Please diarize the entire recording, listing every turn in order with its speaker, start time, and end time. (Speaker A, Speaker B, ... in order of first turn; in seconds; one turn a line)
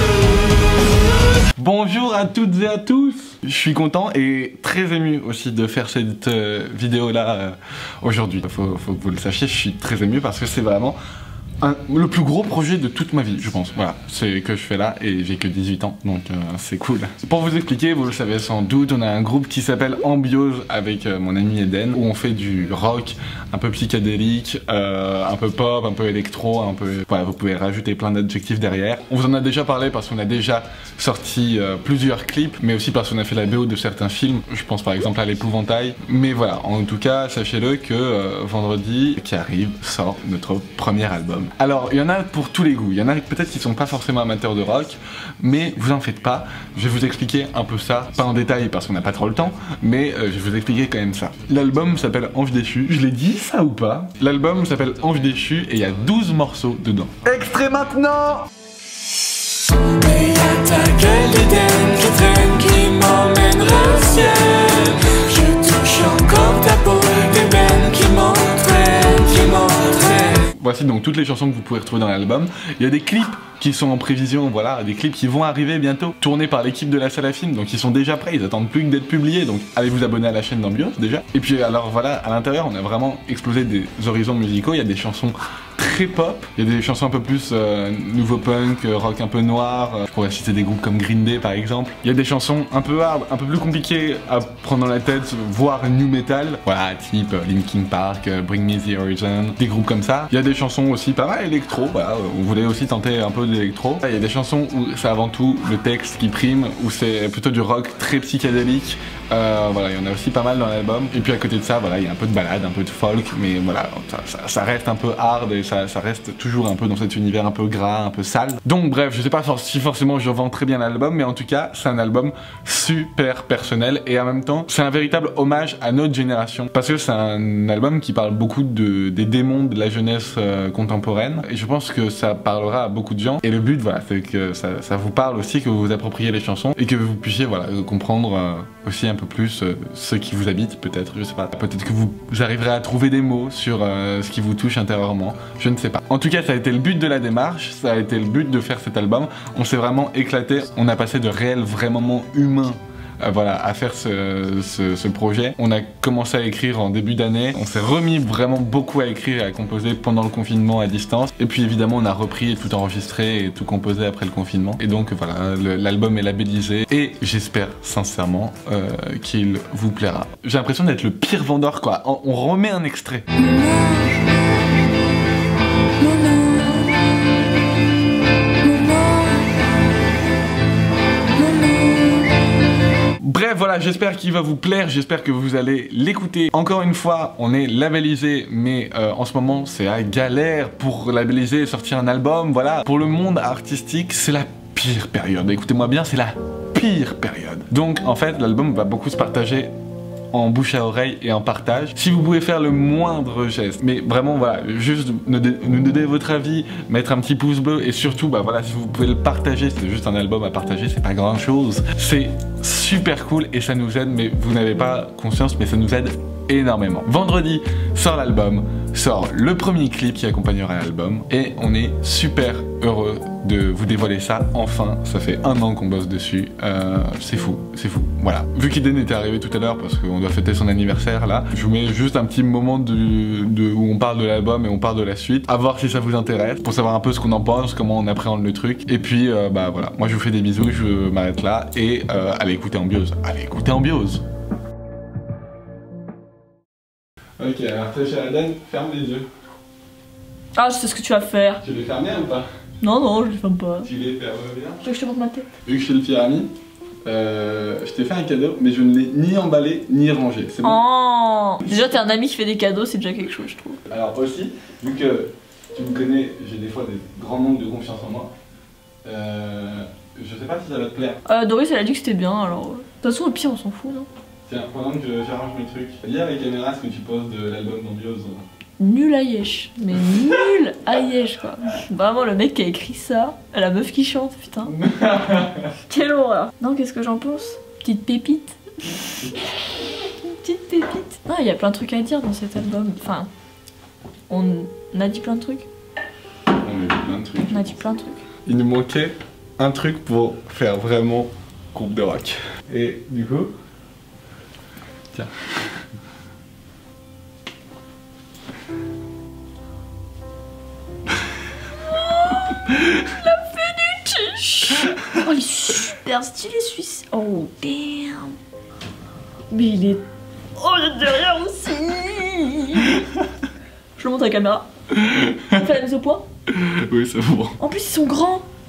Speaker A: 1.5-11.0
Speaker A: 11.6-58.5
Speaker A: 60.0-62.5
Speaker B: 60.0-70.1
Speaker A: 69.9-173.3
Speaker C: 173.3-174.4
Speaker C: 176.0-177.3
Speaker C: 178.6-179.6
Speaker C: 181.3-182.5
Speaker A: 183.2-199.7
Speaker A: 200.3-244.2
Speaker A: 247.4-249.3
Speaker C: 250.6-251.6
Speaker A: 251.6-252.5
Speaker C: 252.8-253.9
Speaker A: 253.8-254.8
Speaker C: 254.8-255.5
Speaker A: 255.6-256.5
Speaker A: 257.0-260.8
Speaker C: 260.6-263.8
Speaker A: 263.9-268.3
Speaker A: 269.0-271.2
Speaker C: 271.2-274.1
Speaker A: 274.5-278.4
Speaker C: 278.8-284.7
Speaker A: 284.6-285.8
Speaker C: 285.8-289.1
Speaker C: 290.0-293.3
Speaker C: 294.3-295.6
Speaker A: 296.6-297.8
Speaker C: 297.4-298.2
Speaker A: 298.4-303.5
Speaker A: 305.1-305.7
Speaker C: 311.8-318.4
Speaker C: 319.5-320.0
Speaker C: 320.5-323.1
Speaker C: 324.0-324.6
Speaker A: 324.9-325.7
Speaker C: 325.5-326.2
Speaker A: 326.5-327.6
Speaker C: 327.6-328.4